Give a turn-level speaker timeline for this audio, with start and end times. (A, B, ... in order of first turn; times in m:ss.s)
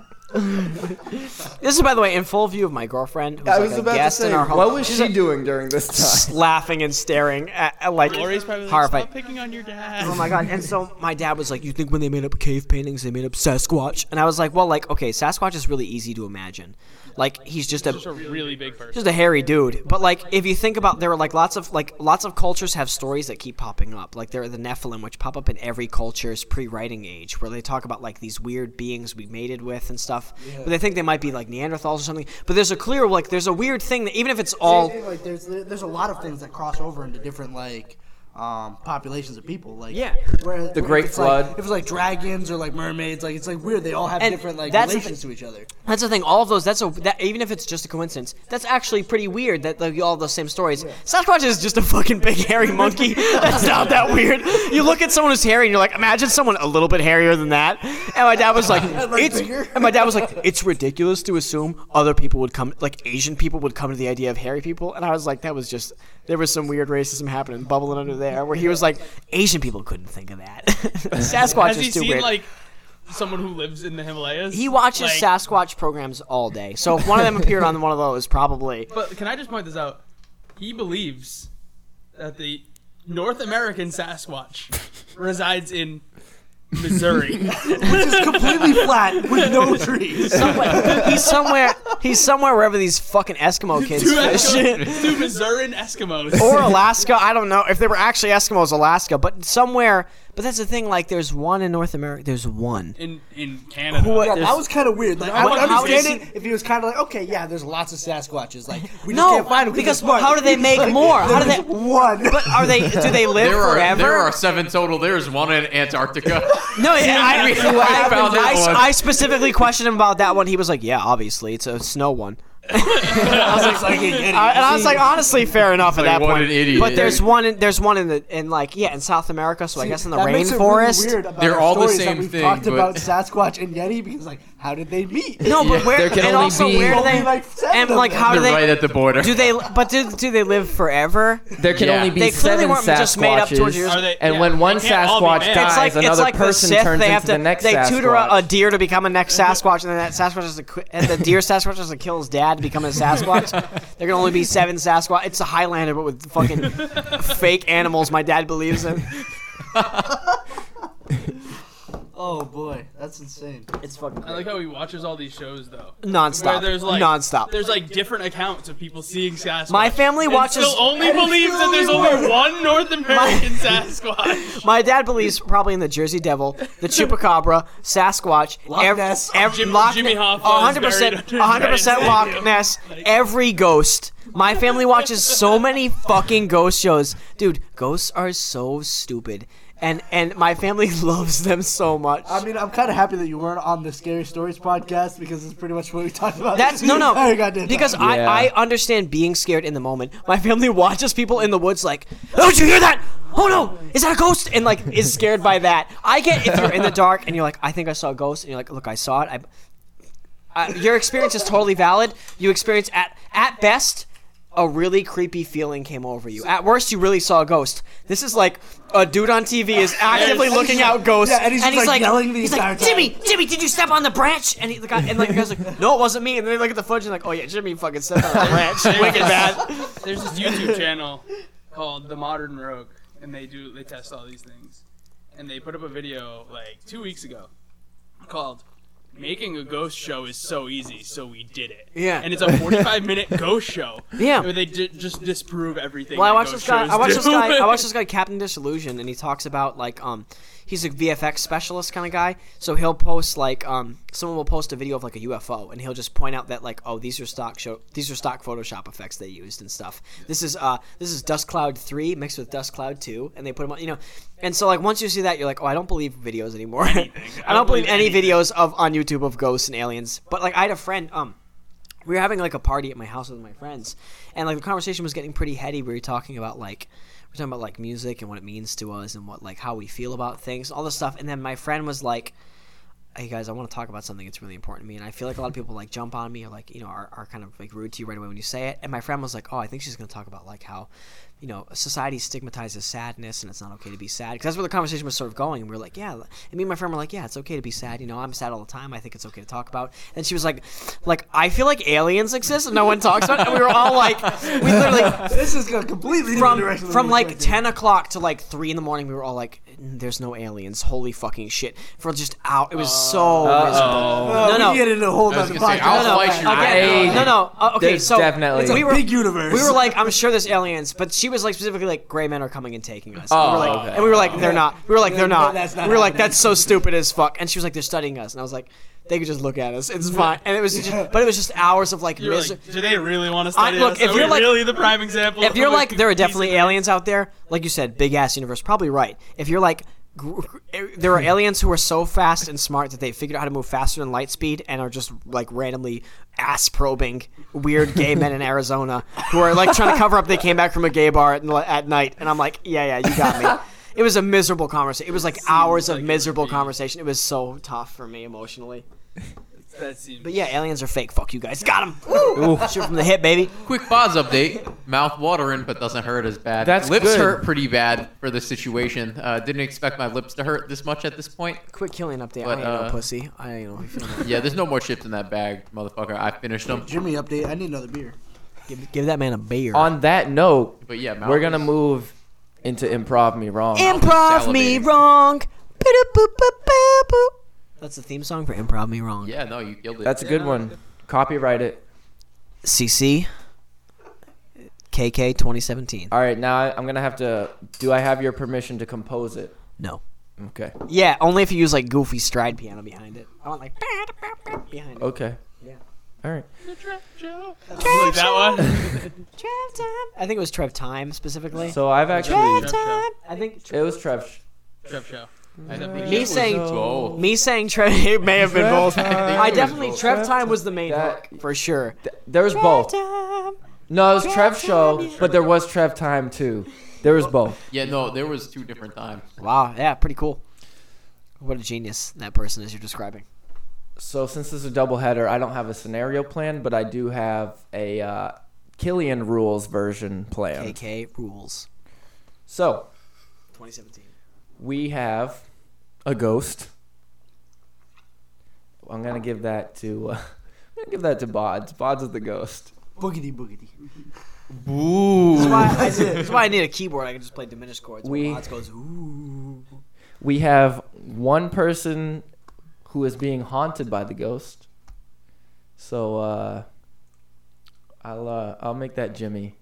0:00.3-0:05.2 A
0:03.4-0:06.3 B
0:05.9-0:09.1 A
0:08.0-0:10.6 C
0:10.0-0:18.1 A
0:17.8-0:19.1 C
0:18.9-0:35.0 A
0:30.4-0:30.7 D
0:34.6-0:45.7 D
0:39.9-0:40.3 A
0:40.7-0:41.6 B
0:44.2-0:45.2 A
0:45.8-1:12.4 A
0:58.6-1:00.3 D
1:11.4-1:12.5 C
1:13.0-1:15.3 C
1:14.5-1:18.9 A
1:18.9-1:20.0 C
1:20.6-1:21.5 C
1:22.2-1:26.0 C
1:26.7-1:29.7 C
1:27.6-1:31.3 D
1:30.3-1:35.3 A
1:30.4-1:30.9 C
1:33.7-1:36.8 C
1:36.4-1:43.0 A
1:43.0-1:44.5 C
1:43.9-1:44.6 A
1:44.2-1:53.0 D
1:45.2-1:46.2 C
1:45.3-1:46.2 A
1:49.0-1:54.4 A
1:53.3-1:59.2 E
1:56.7-2:11.2 A
1:57.0-1:58.1 C
1:57.7-1:58.6 D
2:02.8-2:03.7 C
2:03.1-2:05.3 D
2:05.8-2:07.3 E
2:09.8-2:15.6 D
2:11.4-2:13.1 E
2:15.4-2:21.5 A
2:15.6-2:16.0 E
2:15.6-2:17.2 B
2:16.2-2:18.5 D
2:18.2-2:19.6 E
2:21.6-2:28.5 B
2:21.7-2:22.2 E
2:22.1-2:24.1 A
2:23.8-2:25.9 C
2:25.4-2:39.1 A
2:36.8-2:37.1 C
2:42.1-2:43.7 D
2:43.8-2:44.6 A
2:44.2-2:54.7 C
2:46.0-2:47.5 A
2:49.7-2:50.9 A
2:50.9-2:52.5 D
2:53.1-3:12.4 A
2:58.7-2:59.5 D
2:59.4-3:03.1 C
3:12.2-3:18.0 D
3:16.5-3:29.4 A
3:18.0-3:18.5 B
3:30.5-3:50.8 A
3:40.1-3:41.0 C
3:40.2-3:43.2 D
3:48.4-3:54.8 C
3:55.3-3:57.5 C
3:58.2-3:58.6 C
3:59.1-4:07.9 C
4:01.9-4:02.4 A
4:04.2-4:04.5 A
4:06.1-4:31.4 A
4:26.8-4:28.5 C
4:32.0-4:42.3 A
4:43.1-4:50.9 A
4:51.4-5:05.4 A
5:05.1-5:07.6 D
5:06.3-5:15.0 A
5:12.7-5:14.5 C
5:13.4-5:14.7 B
5:14.1-5:17.1 D
5:15.2-5:17.4 E
5:15.7-5:32.6 A
5:16.5-5:18.9 B
5:18.5-5:20.1 D
5:23.3-5:24.3 B
5:23.8-5:24.5 C
5:24.3-5:26.7 D
5:30.7-5:31.1 D
5:32.2-5:36.8 C
5:33.5-5:58.8 A
5:55.4-5:56.7 C
5:59.7-6:00.4 C
6:00.2-6:03.5 A
6:02.3-6:02.8 B
6:03.6-6:11.6 E
6:06.6-6:07.4 B
6:11.7-6:14.4 A
6:12.4-6:13.0 E
6:14.2-6:16.9 E
6:16.7-6:18.2 D
6:18.7-6:19.9 A
6:19.7-6:22.1 B
6:20.8-6:21.7 E
6:22.6-6:24.0 B
6:23.7-6:29.3 A
6:23.8-6:24.9 E
6:29.2-6:30.2 E
6:30.0-6:31.8 B
6:32.6-6:33.3 A
6:34.9-6:36.1 A
6:36.1-6:39.5 B
6:40.4-6:40.7 B
6:40.8-6:45.1 A
6:45.0-6:45.4 B
6:46.7-6:49.1 C
6:47.8-6:53.8 A
6:48.6-6:49.0 B
6:51.6-6:52.7 B
6:52.1-6:53.1 C
6:53.7-6:54.4 B
6:54.8-6:56.3 C
6:55.7-6:57.2 E
6:55.7-6:57.3 B
6:56.0-7:02.0 A
6:58.4-7:01.4 B
6:58.9-7:00.0 E
7:02.0-7:02.9 B
7:02.5-7:03.6 A
7:03.9-7:07.6 B
7:04.2-7:05.4 A
7:07.7-7:09.2 E
7:09.4-7:10.4 A
7:11.4-7:13.2 A
7:14.0-7:20.8 B
7:20.5-7:21.7 A
7:22.5-7:22.9 B
7:23.5-7:24.1 A
7:24.6-7:25.4 B
7:26.0-7:26.7 B
7:28.8-7:30.2 B
7:30.8-7:32.7 B
7:33.0-7:33.7 D
7:34.6-7:36.1 E
7:35.3-7:39.6 A
7:35.4-7:36.4 D
7:38.0-7:38.4 B
7:40.2-7:42.2 B
7:42.8-7:44.6 B
7:45.8-7:46.6 B
7:48.0-7:49.5 B